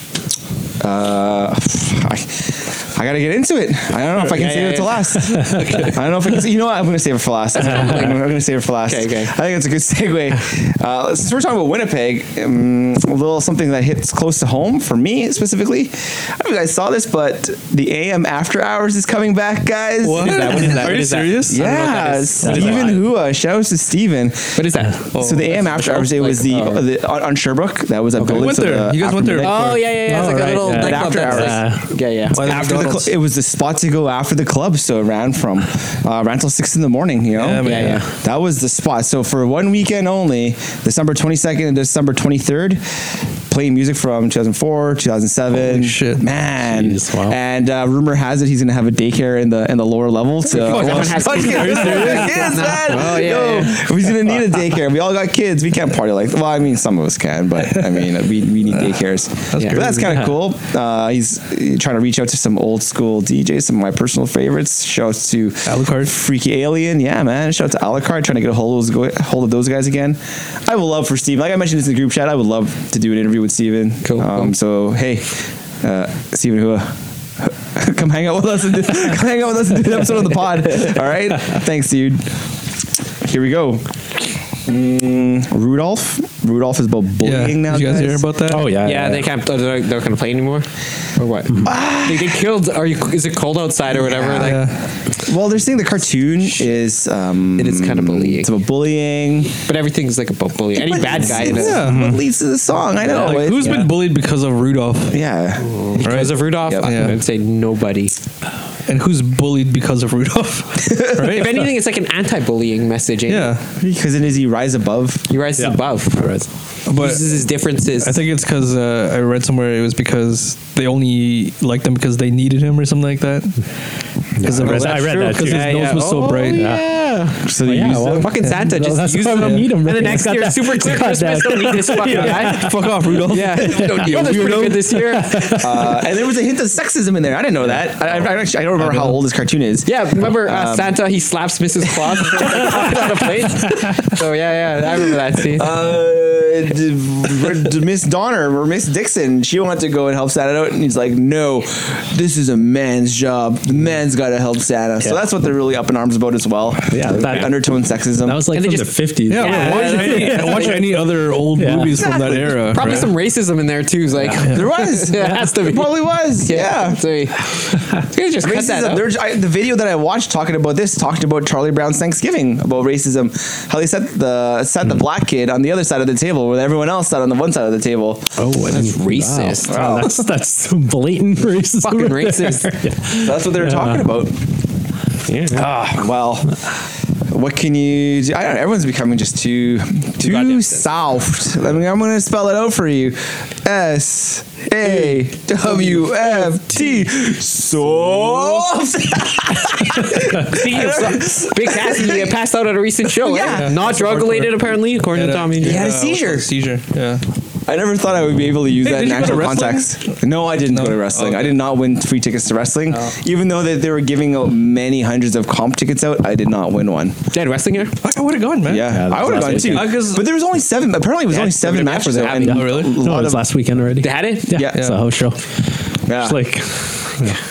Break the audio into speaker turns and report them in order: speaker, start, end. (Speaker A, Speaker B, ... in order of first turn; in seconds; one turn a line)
Speaker A: 0.8-31.8
Speaker B: 4.2-5.4
Speaker C: 5.7-5.9
Speaker B: 7.6-8.2
Speaker B: 8.8-9.3
Speaker C: 20.0-22.9
Speaker B: 20.1-23.0
Speaker D: 22.5-22.8
Speaker B: 24.6-26.8
Speaker C: 25.1-25.9
Speaker C: 28.3-30.0
Speaker B: 29.4-32.9
Speaker D: 30.1-31.9
Speaker C: 32.3-33.1
Speaker A: 32.3-42.8
Speaker C: 37.4-38.0
Speaker B: 37.6-38.1
Speaker A: 43.5-82.4
Speaker C: 45.6-46.2
Speaker D: 46.7-47.4
Speaker C: 50.5-52.6
Speaker B: 50.5-53.8
Speaker C: 59.5-60.1
Speaker D: 60.0-60.3
Speaker C: 65.7-66.1
Speaker B: 74.0-74.5
Speaker A: 83.2-83.8
Speaker A: 84.7-88.3
Speaker C: 87.2-88.7
Speaker D: 88.5-89.3
Speaker B: 88.8-94.6
Speaker A: 91.6-92.5
Speaker A: 94.0-94.6
Speaker C: 94.3-94.9
Speaker A: 95.2-99.6
Speaker B: 97.6-98.5
Speaker B: 99.7-101.8
Speaker A: 100.8-103.9
Speaker C: 101.5-102.2
Speaker B: 103.0-103.9
Speaker C: 103.1-105.2
Speaker A: 105.1-106.9
Speaker B: 105.8-108.1
Speaker C: 106.0-107.2
Speaker C: 108.9-111.7
Speaker B: 111.2-113.5
Speaker C: 113.3-113.6
Speaker A: 113.8-115.3
Speaker B: 115.3-116.3
Speaker D: 115.6-116.5
Speaker C: 116.9-117.4
Speaker B: 117.0-118.2
Speaker C: 118.0-123.6
Speaker D: 124.4-125.8
Speaker C: 124.4-126.7
Speaker B: 124.6-127.4
Speaker D: 126.5-126.8
Speaker A: 127.4-128.3
Speaker D: 127.6-135.9
Speaker B: 128.1-132.7
Speaker C: 129.4-129.7
Speaker C: 132.0-135.0
Speaker B: 133.3-135.6
Speaker A: 134.1-134.5
Speaker A: 135.6-141.0
Speaker D: 138.8-139.1
Speaker B: 139.9-145.7
Speaker A: 142.4-142.9
Speaker A: 145.5-158.4
Speaker D: 156.9-157.7
Speaker D: 158.2-162.0
Speaker B: 158.5-160.9
Speaker C: 159.3-163.1
Speaker B: 162.7-169.1
Speaker D: 164.2-164.4
Speaker A: 164.5-167.0
Speaker D: 165.1-165.4
Speaker A: 168.4-178.3
Speaker D: 178.4-184.1
Speaker B: 178.7-179.9
Speaker A: 179.7-180.2
Speaker B: 181.8-182.8
Speaker A: 183.1-184.4
Speaker B: 185.3-185.7
Speaker A: 185.5-186.6
Speaker A: 187.3-202.3
Speaker B: 190.2-190.8
Speaker B: 200.4-205.9
Speaker A: 203.2-204.2
Speaker C: 203.4-207.2
Speaker A: 205.6-206.5
Speaker A: 207.7-217.2
Speaker C: 208.8-211.6
Speaker B: 217.3-217.9
Speaker C: 218.0-220.3
Speaker A: 218.7-223.5
Speaker D: 218.9-219.9
Speaker B: 221.3-222.6
Speaker D: 222.4-225.4
Speaker C: 222.4-223.0
Speaker B: 224.0-224.6
Speaker A: 224.5-224.9
Speaker C: 224.7-225.0
Speaker A: 226.1-226.4
Speaker D: 226.1-227.4